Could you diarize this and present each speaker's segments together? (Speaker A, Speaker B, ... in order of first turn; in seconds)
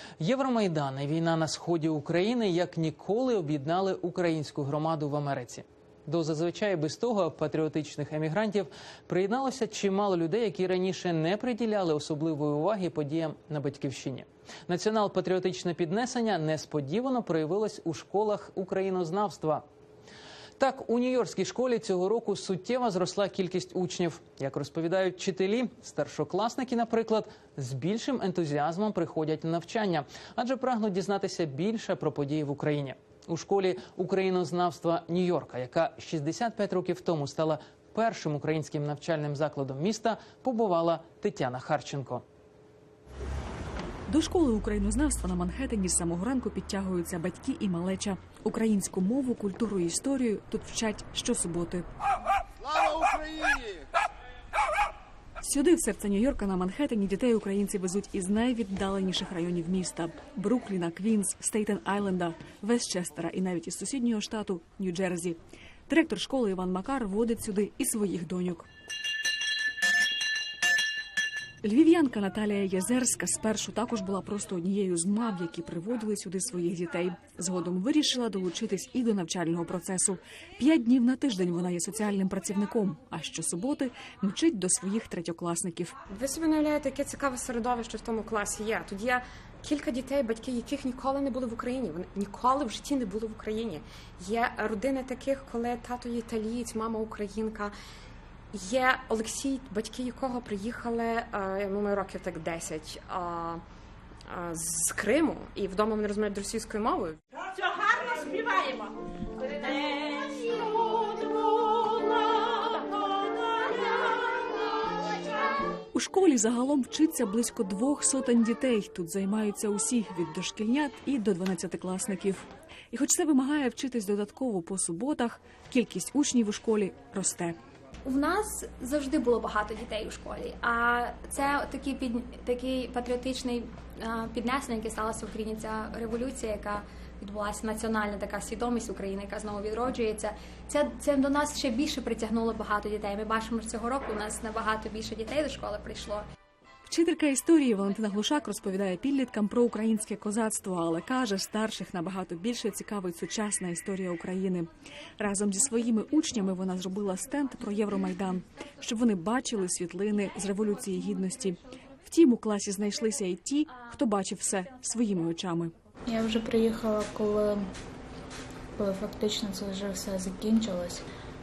Speaker A: 0.2-19.6, 20.6-42.2
Speaker B: 44.1-51.9, 55.4-65.4, 65.9-68.7, 71.6-85.9, 115.9-127.6, 146.8-165.7
Speaker C: 86.1-97.8, 98.5-103.6, 104.3-107.2, 107.9-108.9, 109.6-111.2, 111.8-112.7
Speaker D: 128.0-146.2
Speaker E: 166.1-167.6, 168.8-171.0